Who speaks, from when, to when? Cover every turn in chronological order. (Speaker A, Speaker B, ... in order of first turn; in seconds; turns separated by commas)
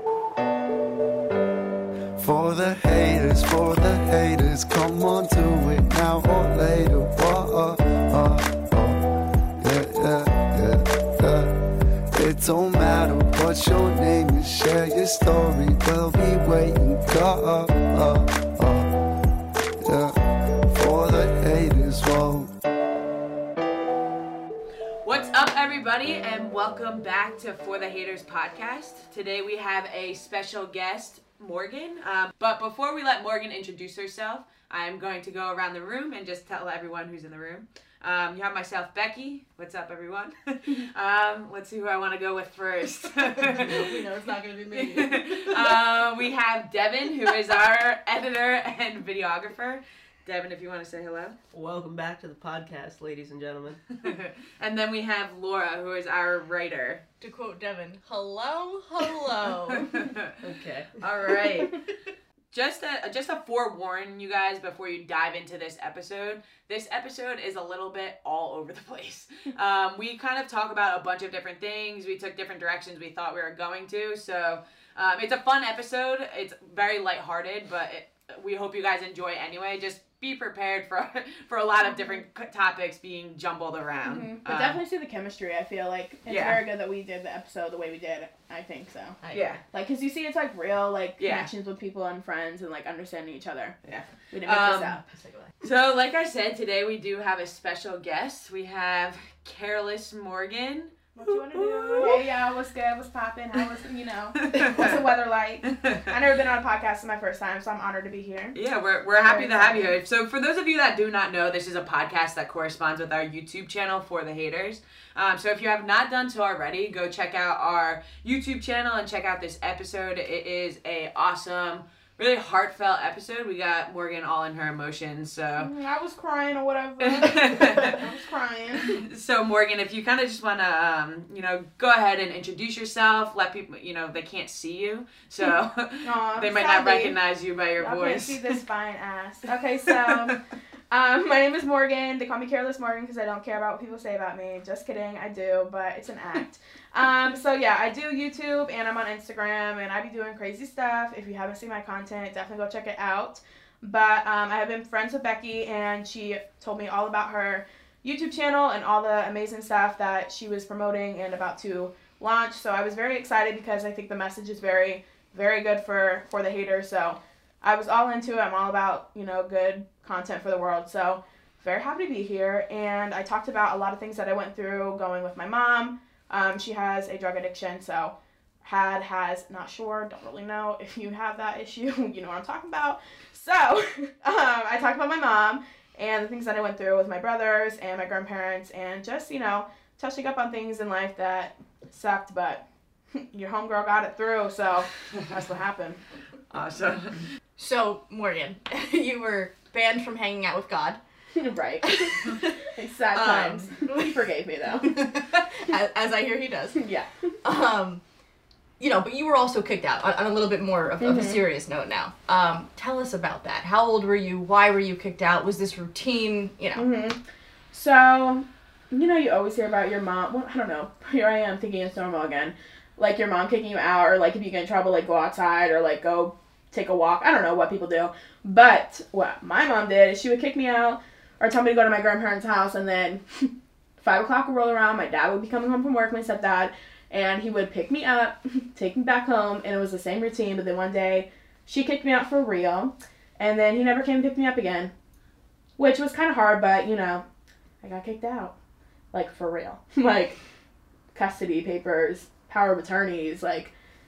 Speaker A: 2.2-9.0, Speaker A: 9.6-11.5, Speaker A: 12.1-18.9, Speaker A: 19.8-22.5, Speaker B: 25.0-44.0, Speaker C: 43.3-45.8, Speaker B: 44.7-51.4, Speaker D: 51.5-53.8, Speaker B: 54.0-57.0, Speaker C: 57.2-60.0, Speaker B: 59.8-60.3, Speaker D: 60.4-61.0, Speaker B: 61.0-61.8, Speaker B: 62.5-84.8, Speaker E: 81.9-82.2, Speaker E: 84.0-89.2, Speaker B: 86.3-86.6, Speaker C: 89.2-89.6, Speaker B: 89.3-89.6, Speaker E: 89.7-93.8, Speaker B: 91.2-91.5, Speaker B: 93.8-95.0, Speaker E: 94.3-95.1, Speaker C: 95.1-95.5, Speaker B: 95.6-102.2, Speaker E: 101.2-108.5, Speaker B: 104.4-105.0, Speaker B: 105.7-106.0, Speaker B: 108.5-125.7, Speaker E: 109.2-110.0, Speaker E: 125.6-129.0, Speaker B: 127.0-128.0, Speaker B: 128.8-138.6, Speaker E: 136.0-137.2, Speaker E: 137.8-140.4, Speaker E: 140.9-192.6, Speaker E: 193.1-196.0, Speaker B: 196.5-197.3, Speaker C: 197.6-201.0, Speaker E: 201.3-204.9, Speaker C: 201.8-202.6, Speaker C: 203.1-204.1, Speaker C: 204.8-206.8, Speaker E: 206.8-207.3, Speaker C: 207.4-208.0, Speaker C: 208.8-216.8, Speaker E: 211.0-211.4, Speaker E: 216.8-217.2, Speaker E: 217.7-244.9, Speaker E: 245.8-247.2, Speaker E: 247.8-248.5, Speaker E: 249.1-250.4, Speaker E: 251.1-253.7